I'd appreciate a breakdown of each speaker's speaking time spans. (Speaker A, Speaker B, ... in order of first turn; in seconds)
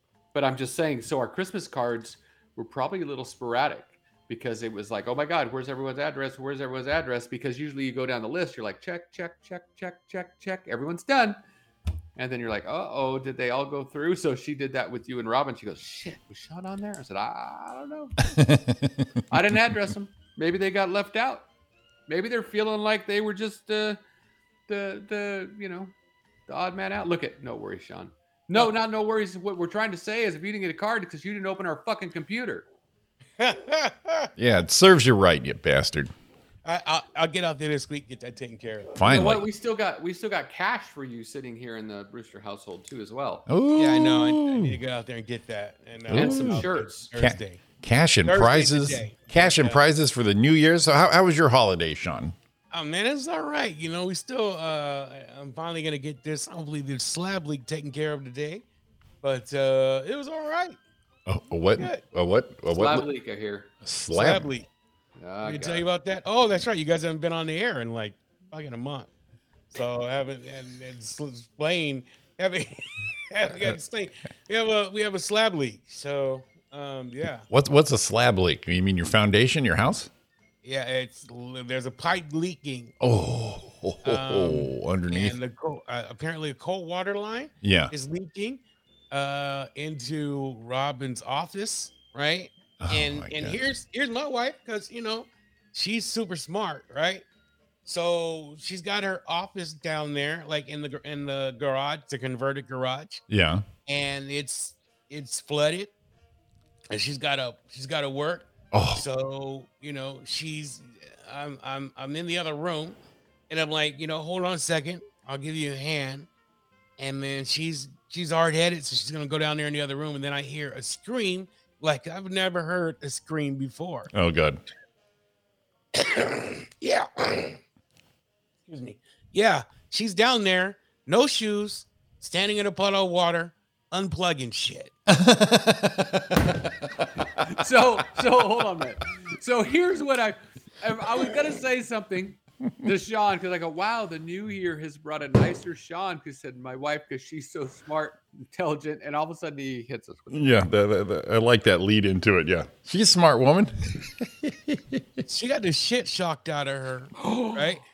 Speaker A: 0.3-11.4, 12.2-18.2, 19.3-21.5, 22.1-24.0, 24.7-25.9, 26.5-32.7, 39.0-43.5, 46.1-47.1, 62.7-63.7, 65.2-65.9, 137.4-150.5, 157.2-157.8
Speaker B: 18.2-19.1, 34.4-36.1, 39.0-39.5, 43.5-44.8, 46.1-52.4, 61.3-63.1, 63.8-64.5, 77.5-80.1, 83.0-85.4, 87.6-87.9, 92.8-93.6, 103.3-103.7, 108.7-109.1, 124.1-124.6, 135.1-136.9, 150.3-155.2
Speaker C: 33.4-34.3, 36.6-39.0, 43.8-47.6, 48.2-49.8, 52.7-58.6, 59.2-60.8, 61.8-62.0, 64.1-64.7, 65.4-69.1, 69.7-77.5, 80.6-82.9, 84.0-97.2, 97.8-103.2, 103.9-105.9, 106.9-113.0, 113.5-116.3, 117.0-124.1, 126.0-127.6, 128.7-134.9, 155.2-157.8